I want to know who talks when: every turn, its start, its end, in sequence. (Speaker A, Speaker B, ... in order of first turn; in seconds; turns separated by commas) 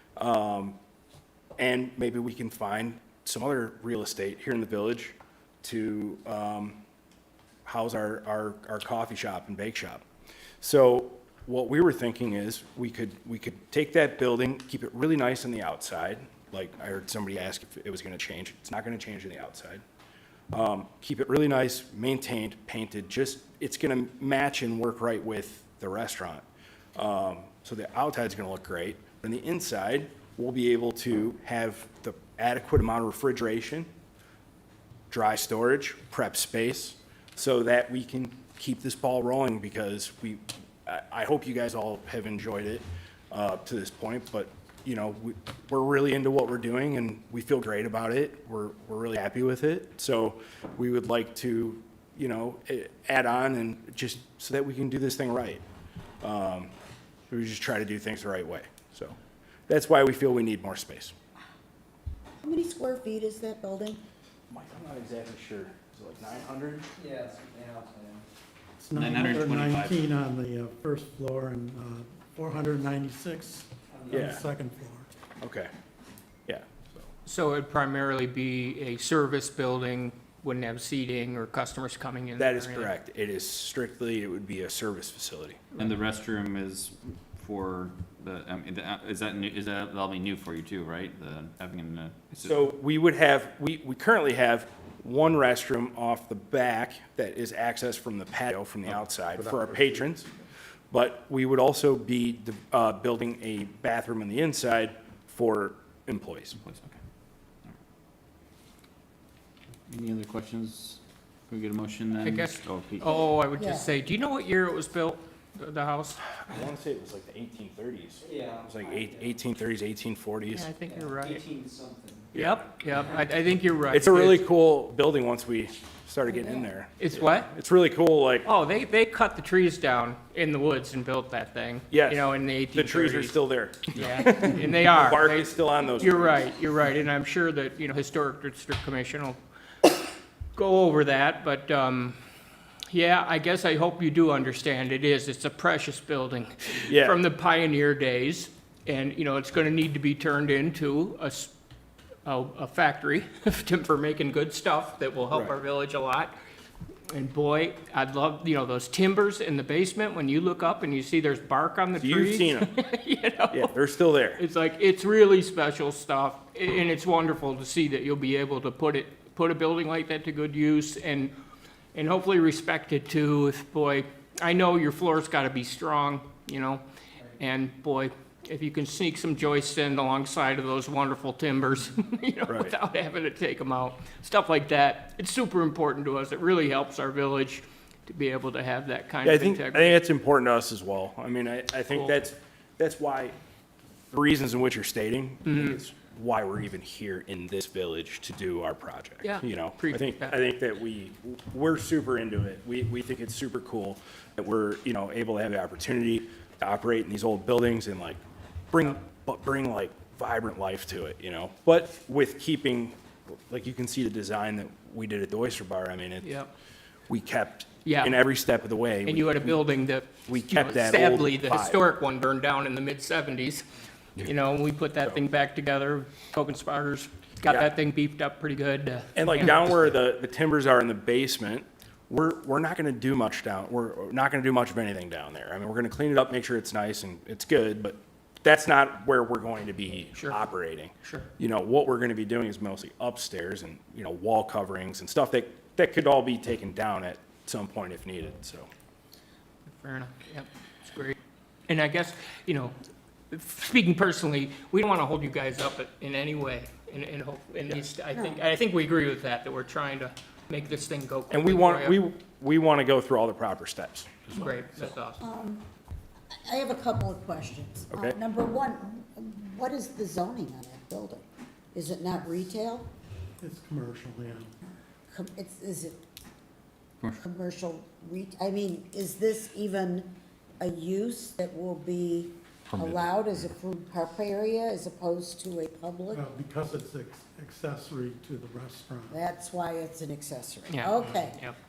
Speaker A: 0.2-0.8, Speaker A: 1.6-6.8, Speaker A: 7.7-10.0, Speaker A: 10.6-19.8, Speaker A: 20.5-26.4, Speaker A: 26.9-33.9, Speaker A: 35.1-55.6, Speaker A: 56.2-56.7, Speaker A: 57.3-59.1, Speaker A: 59.7-61.1, Speaker B: 62.4-64.0, Speaker A: 64.5-66.9, Speaker C: 67.0-68.2, Speaker D: 68.8-75.1, Speaker E: 68.9-70.1, Speaker A: 74.1-74.4, Speaker A: 75.4-75.7, Speaker A: 76.5-77.0, Speaker F: 77.2-82.9, Speaker A: 82.4-85.6, Speaker E: 85.8-92.6, Speaker A: 92.4-100.3, Speaker A: 100.9-106.6, Speaker E: 106.6-107.0, Speaker E: 109.9-113.1, Speaker F: 112.2-116.2, Speaker B: 113.2-113.9, Speaker A: 116.2-120.7, Speaker C: 118.3-118.7, Speaker F: 120.5-121.5, Speaker C: 120.9-122.2, Speaker A: 122.3-122.6, Speaker F: 122.3-124.4, Speaker A: 123.9-128.5, Speaker B: 126.3-126.6, Speaker F: 127.0-127.5, Speaker F: 128.4-133.3, Speaker A: 131.9-136.4, Speaker F: 133.9-139.9, Speaker F: 140.6-142.2, Speaker F: 142.9-151.5, Speaker A: 146.9-147.2, Speaker F: 152.2-156.3, Speaker F: 157.1-163.7, Speaker A: 162.0-162.7, Speaker A: 163.5-164.4, Speaker F: 164.4-171.3, Speaker F: 171.9-176.8, Speaker F: 177.4-189.9, Speaker A: 182.5-182.7, Speaker A: 189.2-193.3, Speaker A: 194.1-208.2, Speaker F: 195.4-195.8, Speaker F: 199.2-200.3, Speaker A: 208.7-216.3, Speaker F: 216.2-216.5, Speaker A: 217.1-219.6, Speaker F: 217.8-218.2, Speaker F: 219.1-223.6, Speaker A: 220.2-221.8, Speaker F: 224.2-229.6, Speaker A: 229.2-248.7, Speaker F: 241.0-241.3, Speaker F: 249.7-251.2, Speaker F: 251.7-252.7, Speaker F: 253.3-262.0, Speaker B: 258.1-258.4, Speaker A: 261.3-264.3, Speaker F: 264.3-265.2, Speaker B: 265.2-265.6, Speaker B: 266.4-272.9, Speaker A: 267.9-268.2, Speaker D: 273.4-274.5, Speaker B: 275.1-276.0, Speaker B: 277.2-286.2, Speaker D: 286.1-289.1, Speaker B: 289.1-291.4, Speaker F: 290.7-291.6